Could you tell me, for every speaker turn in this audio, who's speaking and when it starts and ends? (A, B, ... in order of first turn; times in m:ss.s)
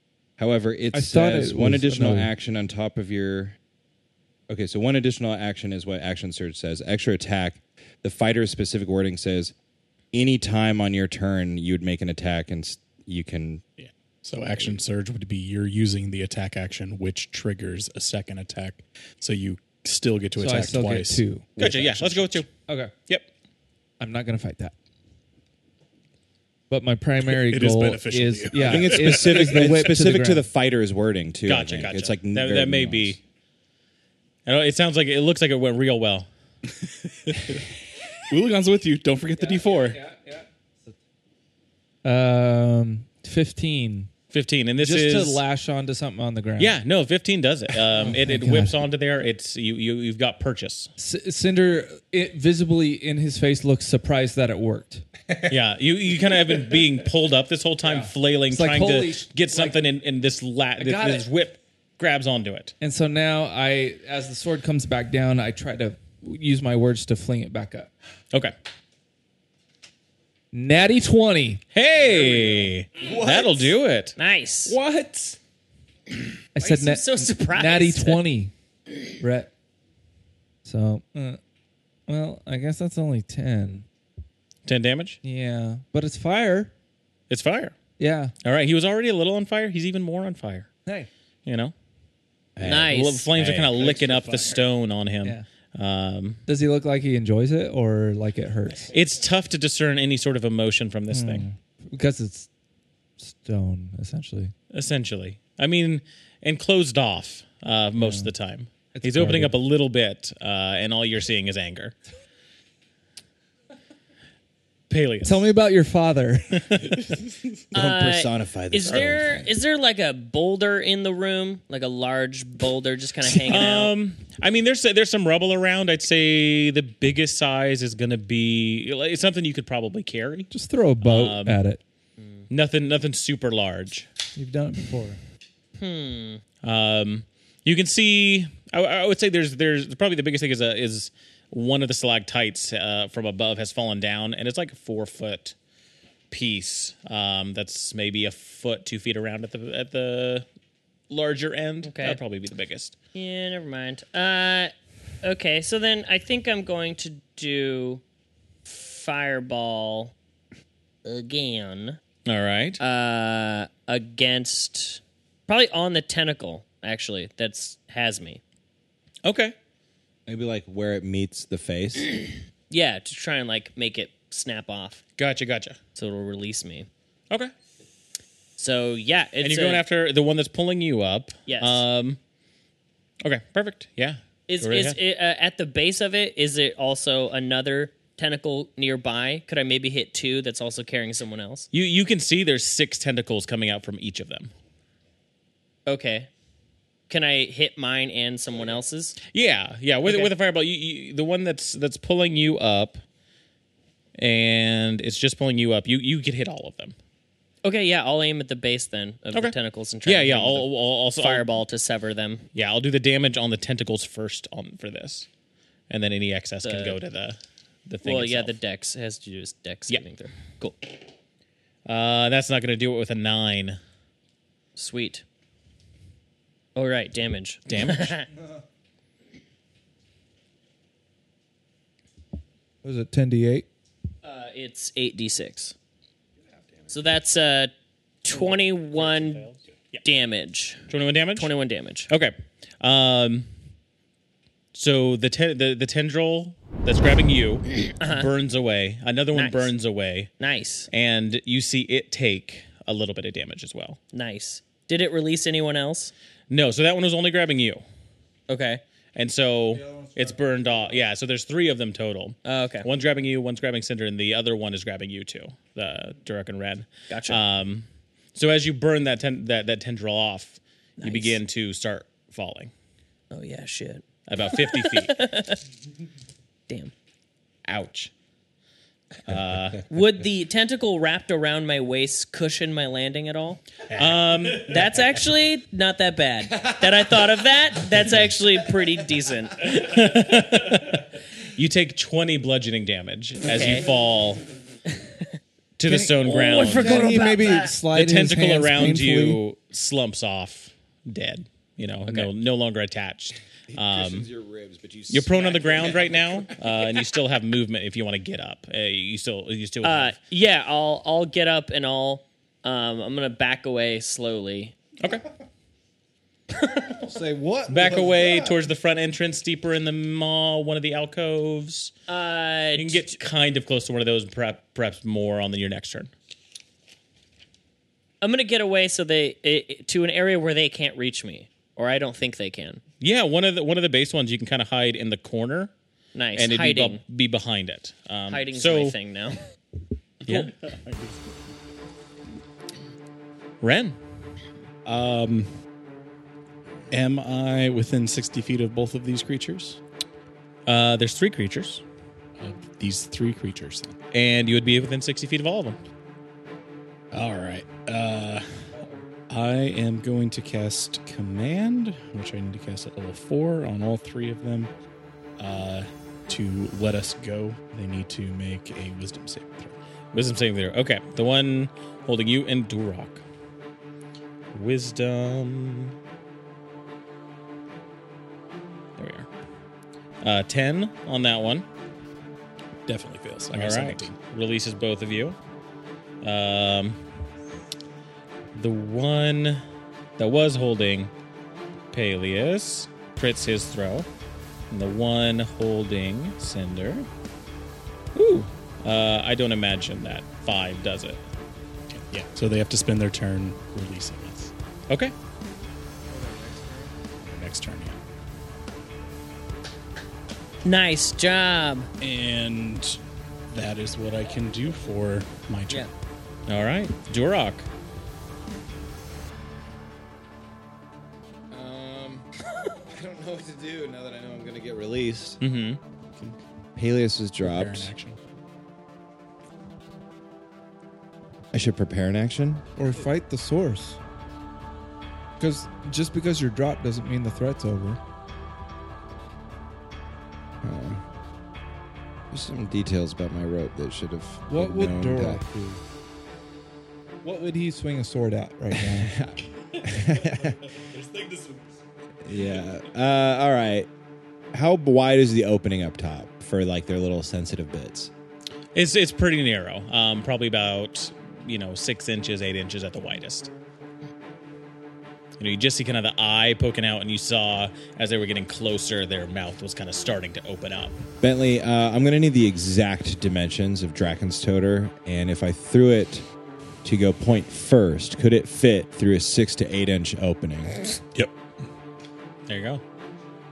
0:00.4-0:03.6 A
0:00.9-0:02.3 B
0:04.5-0:09.5 A
0:10.1-0:13.6 A
0:13.8-0:22.4 C
0:20.4-0:21.5 B
0:21.6-0:22.5 D
0:22.7-0:22.9 B
0:24.0-0:24.7 B
0:26.7-0:30.4 B
0:27.2-0:29.9 C
0:28.6-0:33.2 A
0:31.4-0:33.2 D
0:34.4-0:36.3 D
0:36.7-0:37.7 C
0:38.3-0:40.0 C
0:39.4-0:41.0 B
0:42.0-0:44.1 B
0:44.3-0:45.4 D
0:44.8-0:46.8 B
0:46.6-0:50.9 D
0:47.9-0:48.8 B
0:51.0-0:55.0 B
0:55.5-1:02.7 D
0:57.8-0:59.9 B
1:00.8-1:01.3 B
1:02.8-1:07.9 B
1:10.5-1:11.6 B
1:11.7-1:14.2 D
1:13.0-1:13.7 A
1:14.2-1:14.8 E
1:14.7-1:15.4 B
1:16.6-1:18.5 B
1:16.6-1:18.2 E
1:19.2-1:19.5 B
1:20.6-1:21.4 B
1:22.1-1:23.9 B
1:24.7-1:25.2 D
1:25.2-1:26.7 B
1:27.3-1:27.8 D
1:28.0-1:28.3 B
1:28.4-1:30.7 D
1:31.4-1:31.7 D
1:32.6-1:34.4 A
1:32.6-1:33.3 E
1:32.7-1:36.4 D
1:33.8-1:34.2 C
1:36.5-1:38.9 B
1:38.9-1:41.4 D
1:41.1-1:42.5 B
1:43.2-1:44.5 B
1:44.7-1:51.9 D
1:48.0-1:48.3 B
1:48.9-1:49.5 B
1:54.9-1:55.5 D
1:55.2-1:56.8 B
1:56.6-1:57.1 D
1:57.7-1:59.6 A
1:57.7-2:03.9 E
1:58.8-1:59.3 D
2:03.2-2:03.8 A
2:03.5-2:10.5 D
2:10.5-2:11.8 B
2:11.0-2:11.6 D
2:12.5-2:14.1 D
2:14.3-2:15.2 B
2:15.8-2:16.4 E
2:16.6-2:25.6 D
2:26.3-2:30.4 D
2:31.1-2:32.9 D
2:31.8-2:32.2 E
2:33.1-2:38.0 E
2:38.7-2:40.1 E
2:41.0-2:42.0 E
2:42.3-2:42.8 D
2:42.8-2:48.4 E
2:49.2-2:49.6 D
2:50.3-2:52.2 A
2:52.7-2:55.0 E
2:55.2-2:55.8 D
2:55.9-2:56.9 E
2:58.6-2:59.8 E
2:59.4-3:02.2 D
3:01.4-3:01.8 E
3:03.2-3:05.0 D
3:04.5-3:11.7 E
3:11.7-3:14.5 D
3:15.8-3:16.3 E
3:17.1-3:19.2 E
3:19.3-3:23.0 D
3:20.0-3:20.3 E
3:24.2-3:27.0 D
3:27.6-3:32.5 E
3:29.3-3:31.5 D
3:32.6-3:35.3 D
3:35.9-3:38.6 D
3:36.6-3:37.0 E
3:38.0-3:40.8 E
3:41.8-3:43.8 D
3:44.8-3:45.2 E
3:46.8-3:48.3 E
3:47.7-3:48.2 D
3:52.8-3:53.7 B
3:54.2-3:55.8 E
3:56.9-3:57.7 E
3:58.2-3:59.5 E
3:58.3-4:00.0 D
4:00.0-4:02.1 E
4:00.9-4:01.5 D
4:02.1-4:03.5 D
4:04.7-4:10.3 D
4:08.0-4:08.3 E
4:09.3-4:09.7 E
4:10.4-4:10.9 E
4:10.9-4:14.0 D
4:14.1-4:16.1 E
4:16.5-4:17.8 D
4:18.5-4:18.8 E
4:19.2-4:32.7 D
4:19.7-4:20.9 B
4:22.4-4:22.9 E
4:27.1-4:27.4 E
4:31.0-4:31.4 E
4:33.3-4:35.6 E
4:34.3-4:35.2 D
4:36.7-4:36.9 E
4:37.6-4:38.1 D
4:39.2-4:39.8 D
4:39.9-4:43.6 E
4:43.9-4:45.0 D
4:44.5-4:49.9 E
4:49.6-4:54.4 D
4:53.4-4:53.9 E
4:54.9-4:55.4 E
4:55.8-5:04.3 D
4:55.8-4:59.4 B
4:56.2-4:57.7 E
5:03.7-5:06.6 A
5:05.1-5:10.2 D
5:09.8-5:14.8 E
5:15.0-5:15.2 D
5:16.6-5:17.0 E
5:17.0-5:18.6 B
5:17.7-5:21.9 D
5:22.1-5:23.2 E
5:22.8-5:26.1 D
5:28.2-5:32.8 E
5:33.0-5:35.7 D
5:36.2-5:37.0 E
5:36.3-5:39.0 D
5:38.3-5:39.4 E
5:40.2-5:41.5 C
5:40.3-5:40.5 D
5:43.6-5:44.0 D
5:44.8-5:45.5 C
5:46.9-5:49.8 C
5:50.7-5:51.8 D
5:52.4-5:54.0 C
5:54.1-5:55.8 D
5:57.1-5:58.7 C
5:59.3-6:04.7 C
6:05.4-6:09.8 C
6:10.1-6:13.2 D
6:14.5-6:15.9 D
6:19.0-6:19.3 D
6:20.2-6:21.7 D
6:22.9-6:24.2 C
6:23.5-6:25.4 D
6:26.2-6:27.0 D
6:28.6-6:29.6 D
6:30.2-6:31.1 D
6:31.9-6:34.1 D
6:34.7-6:37.1 D
6:38.2-6:41.2 D
6:41.9-6:44.5 C
6:44.9-6:45.1 D
6:46.1-6:46.9 B
6:47.2-6:48.0 C
6:50.6-6:51.9 E
6:52.0-6:53.0 C
6:53.5-6:55.9 C
6:56.5-6:57.7 D
7:01.5-7:02.3 A
7:02.9-7:05.4 A
7:05.4-7:05.8 D
7:06.8-7:07.9 A
7:07.4-7:08.2 C
7:11.5-7:12.6 A
7:12.8-7:14.0 B
7:15.4-7:18.0 B
7:20.6-7:21.0 A
7:22.3-7:25.4 A
7:24.5-7:25.8 B
7:27.2-7:29.1 B
7:28.7-7:30.6 A
7:29.7-7:31.7 C
7:32.2-7:33.9 A
7:32.3-7:32.7 C
7:34.5-7:38.1 A
7:38.8-7:43.5 D
7:45.4-7:51.0 D
7:51.2-7:56.3 A
7:56.8-8:00.9 A
8:02.5-8:02.8 D